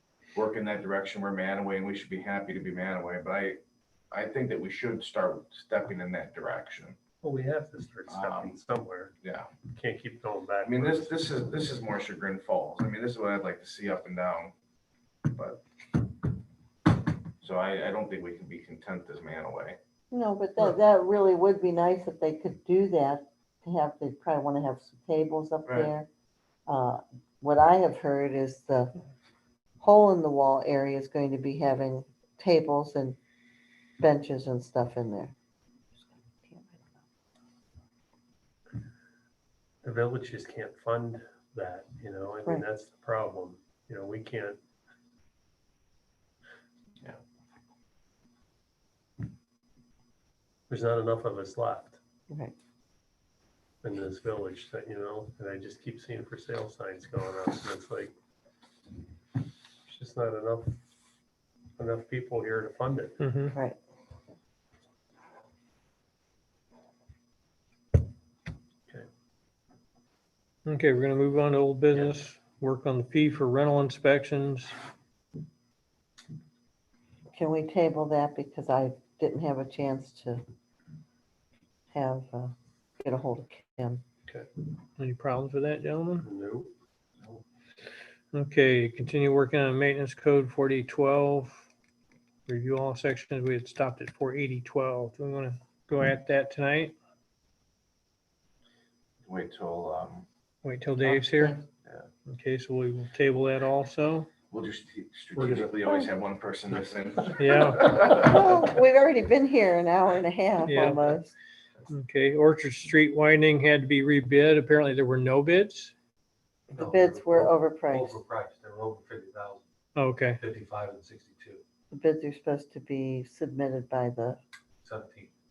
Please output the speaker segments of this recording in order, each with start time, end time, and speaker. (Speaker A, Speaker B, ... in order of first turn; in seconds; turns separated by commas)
Speaker A: 0.3-3.6, Speaker A: 4.1-7.0, Speaker B: 7.2-9.1, Speaker A: 8.1-8.5, Speaker A: 9.2-9.5, Speaker B: 9.7-11.2, Speaker A: 10.6-14.5, Speaker A: 15.3-15.6, Speaker A: 17.4-19.8, Speaker C: 20.1-26.1, Speaker C: 26.7-28.9, Speaker C: 29.8-33.2, Speaker C: 34.0-35.3, Speaker C: 36.4-36.8, Speaker B: 39.8-44.6, Speaker B: 50.7-52.0, Speaker B: 53.8-58.1, Speaker B: 59.9-60.8, Speaker B: 61.8-63.2, Speaker D: 63.2-63.5, Speaker D: 70.7-74.7, Speaker C: 77.3-80.4, Speaker C: 81.9-84.0, Speaker D: 85.0-86.3, Speaker B: 86.2-86.7, Speaker D: 88.3-91.6, Speaker D: 92.5-96.9, Speaker A: 99.2-100.2, Speaker D: 100.6-101.6, Speaker C: 101.0-101.6, Speaker D: 102.3-104.3, Speaker A: 104.5-108.3, Speaker D: 107.4-108.0, Speaker C: 108.0-111.3, Speaker D: 110.6-111.2, Speaker D: 111.9-115.9, Speaker E: 116.7-119.6, Speaker C: 116.7-118.2, Speaker D: 120.0-120.4, Speaker E: 120.4-121.6, Speaker C: 121.9-124.4, Speaker E: 124.8-125.3